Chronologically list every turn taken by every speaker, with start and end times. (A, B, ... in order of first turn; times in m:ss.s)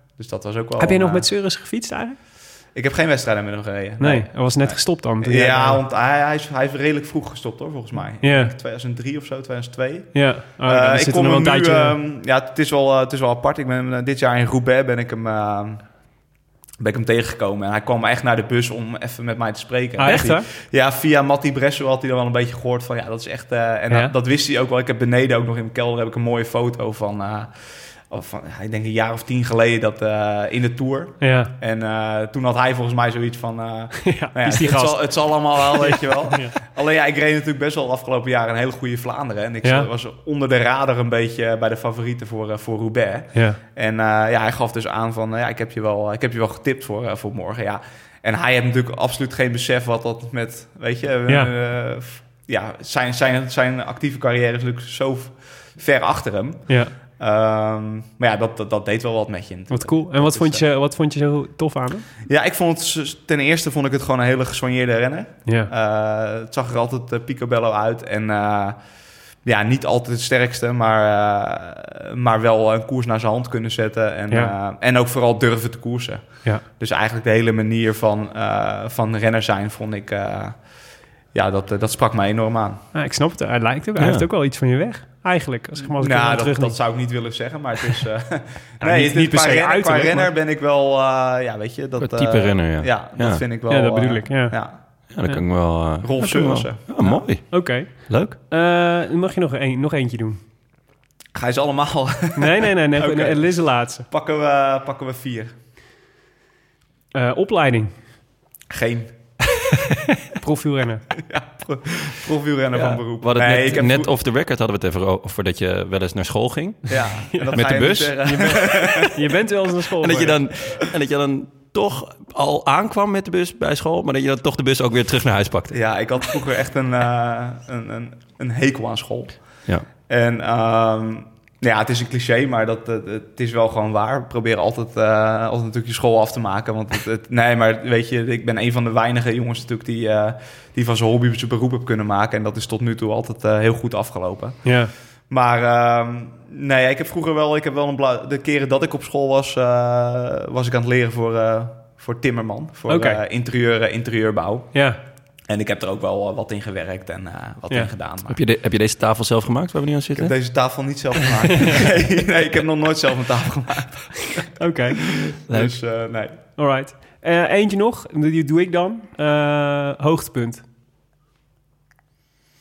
0:00.2-0:01.2 A
0:00.8-0:02.2 B
0:02.7-0:15.8 A
0:04.0-0:05.8 B
0:08.2-0:08.5 B
0:10.1-0:12.0 B
0:16.8-0:27.5 A
0:20.0-0:20.4 B
0:28.0-1:00.6 A
0:31.2-0:31.5 B
0:34.0-0:36.6 B
0:39.6-0:39.9 B
0:43.3-0:43.6 B
0:59.7-1:02.0 B
1:02.3-1:08.8 A
1:05.4-1:05.7 B
1:09.4-1:20.6 A
1:21.3-1:22.8 A
1:22.9-1:26.8 B
1:24.0-1:24.2 C
1:25.9-1:34.8 A
1:28.8-1:30.3 B
1:32.0-1:33.4 C
1:33.7-1:34.6 B
1:35.1-1:38.4 C
1:36.0-1:37.2 A
1:37.5-1:40.4 B
1:41.3-1:43.5 A
1:42.4-1:44.1 B
1:44.1-1:45.5 A
1:47.1-1:47.9 B
1:48.7-1:49.1 A
1:50.3-1:51.0 B
1:51.2-1:54.1 A
1:52.7-1:57.0 C
1:56.9-1:59.2 A
1:57.3-1:57.6 B
1:57.5-1:59.1 C
1:58.2-2:00.4 B
2:00.0-2:05.8 C
2:05.7-2:09.4 A
2:10.1-2:24.6 A
2:24.6-2:24.9 B
2:25.3-2:34.7 A
2:32.9-2:33.2 B
2:34.7-2:35.0 B
2:35.5-2:38.4 A
2:38.3-2:40.4 C
2:40.1-2:44.4 A
2:44.3-2:45.0 B
2:45.4-2:45.7 C
2:45.5-2:46.4 A
2:46.6-2:50.6 B